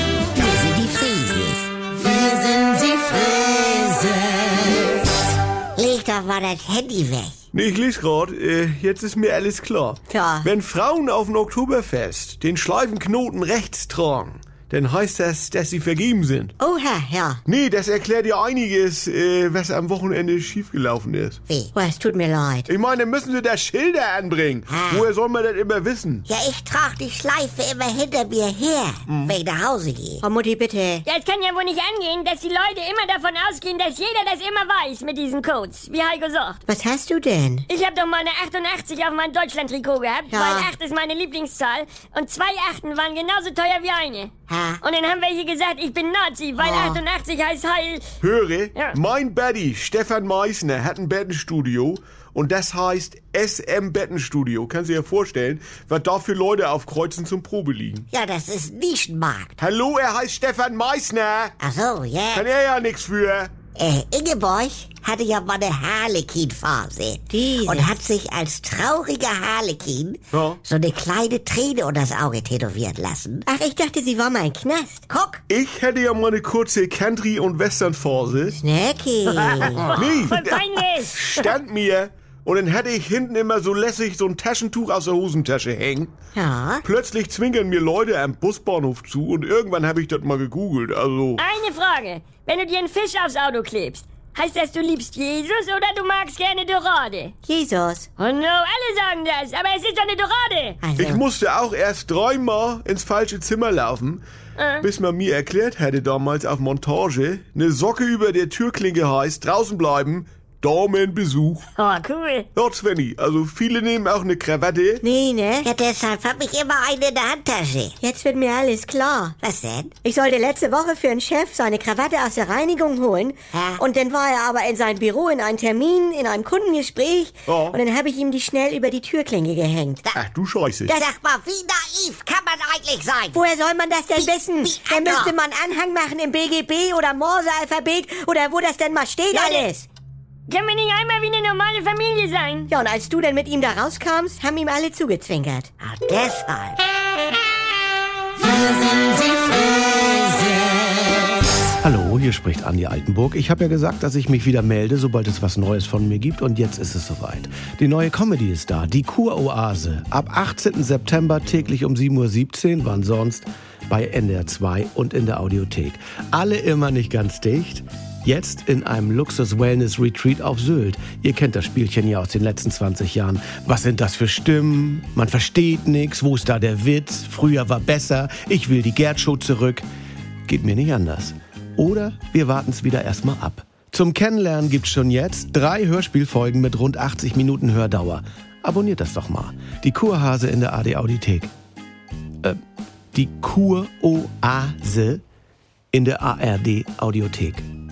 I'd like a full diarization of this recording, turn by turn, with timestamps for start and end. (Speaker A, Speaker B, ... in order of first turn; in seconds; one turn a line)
Speaker A: 0.3-1.7
Speaker A: 3.1-4.8
Speaker A: 5.8-7.4
Speaker B: 7.5-16.5
Speaker C: 10.1-10.5
Speaker C: 16.6-17.4
Speaker B: 17.5-21.4
Speaker A: 21.5-21.7
Speaker C: 21.7-22.7
Speaker B: 22.7-26.3
Speaker A: 24.7-25.1
Speaker A: 26.3-30.2
Speaker C: 30.2-31.0
Speaker D: 31.1-36.6
Speaker C: 36.7-37.7
Speaker D: 37.7-44.3
Speaker C: 40.3-40.7
Speaker A: 44.5-44.8
Speaker D: 44.8-48.0
Speaker C: 46.6-47.0
Speaker B: 48.2-58.1
Speaker A: 58.1-59.6
Speaker B: 59.6-61.6
Speaker A: 61.6-62.5
Speaker B: 62.3-63.6
Speaker A: 63.7-73.5
Speaker C: 67.3-68.0
Speaker B: 70.3-70.6
Speaker C: 73.5-75.2
Speaker A: 75.1-75.4
Speaker B: 75.5-78.6
Speaker C: 78.6-79.9
Speaker D: 79.6-81.5
Speaker B: 80.0-86.1
Speaker C: 86.3-86.8
Speaker B: 86.8-91.4
Speaker D: 91.4-97.3
Speaker C: 97.5-98.1
Speaker D: 98.2-100.8
Speaker C: 100.8-101.2
Speaker B: 101.1-103.0
Speaker D: 104.6-104.9
Speaker B: 104.8-111.6
Speaker D: 111.8-112.5
Speaker B: 112.6-115.0
Speaker C: 115.0-115.7
Speaker A: 115.6-118.0
Speaker C: 118.0-119.4
Speaker A: 119.4-119.9
Speaker C: 120.0-130.0
Speaker A: 123.5-123.8
Speaker B: 127.5-127.8
Speaker B: 130.2-131.0
Speaker A: 130.9-133.4
Speaker C: 133.3-139.9
Speaker A: 134.2-135.3
Speaker D: 139.3-139.7
Speaker D: 140.5-142.7
Speaker C: 142.7-145.7
Speaker A: 145.8-146.9
Speaker A: 148.5-150.5
Speaker E: 151.8-179.8
Speaker E: 180.5-191.5
Speaker E: 193.1-195.2
Speaker E: 195.9-197.7